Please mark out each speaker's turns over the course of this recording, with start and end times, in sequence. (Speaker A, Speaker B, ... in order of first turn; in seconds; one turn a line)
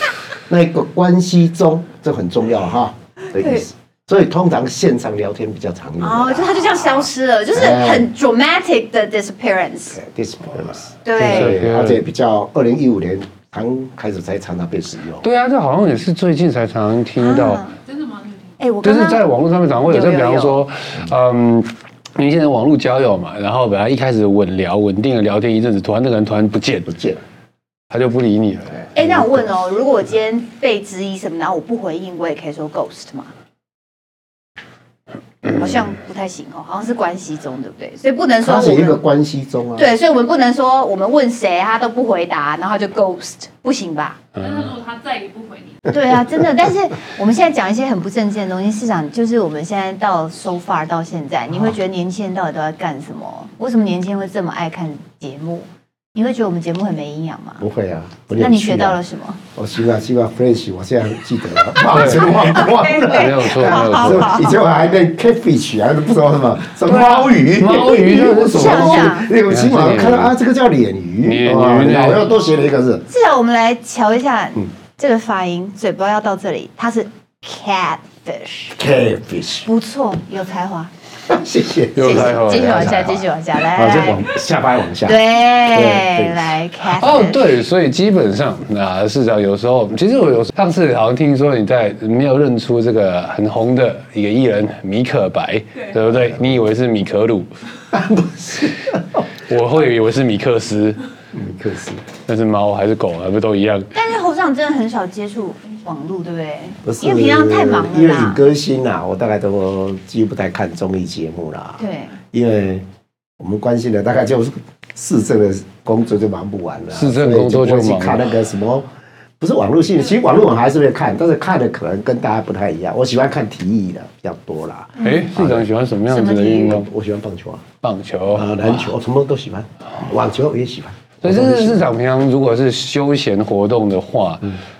Speaker A: 0.5-8.1
Speaker B: 3.3-3.6
Speaker B: 6.0-10.0
Speaker A: 9.9-15.2
Speaker B: 11.0-11.6
Speaker C: 11.2-12.0
Speaker C: 15.2-17.6
Speaker B: 17.2-17.7
Speaker D: 17.8-18.6
Speaker B: 18.6-19.3
Speaker C: 18.8-27.0
Speaker B: 19.9-20.6
Speaker A: 26.9-27.2
Speaker C: 27.9-28.8
Speaker B: 28.9-33.3
Speaker A: 29.0-29.2
Speaker B: 35.5-39.0
Speaker A: 38.4-39.9
Speaker B: 39.8-44.2
Speaker C: 44.4-44.7
Speaker D: 44.4-45.9
Speaker B: 45.9-57.6
Speaker A: 57.6-59.0
Speaker B: 58.4-59.4
Speaker A: 59.5-73.1
Speaker C: 61.9-62.4
Speaker B: 62.3-64.6
Speaker C: 63.0-64.3
Speaker C: 67.5-70.3
Speaker B: 68.5-69.3
Speaker C: 71.2-72.2
Speaker B: 73.1-78.7
Speaker A: 78.8-79.7
Speaker B: 79.7-80.9
Speaker A: 81.3-86.5
Speaker C: 82.0-83.1
Speaker B: 82.0-84.2
Speaker B: 85.0-87.5
Speaker C: 86.9-97.5
Speaker A: 97.9-99.3
Speaker C: 99.5-101.0
Speaker A: 101.3-102.0
Speaker C: 102.2-103.9
Speaker B: 103.9-108.4
Speaker A: 106.8-111.8
Speaker B: 111.8-112.2
Speaker A: 112.3-112.9
Speaker A: 113.4-118.9
Speaker C: 116.9-118.2
Speaker A: 119.4-125.7
Speaker C: 125.0-126.9
Speaker B: 126.1-126.8
Speaker A: 126.6-127.7
Speaker C: 127.8-128.9
Speaker A: 128.3-131.8
Speaker C: 131.2-134.6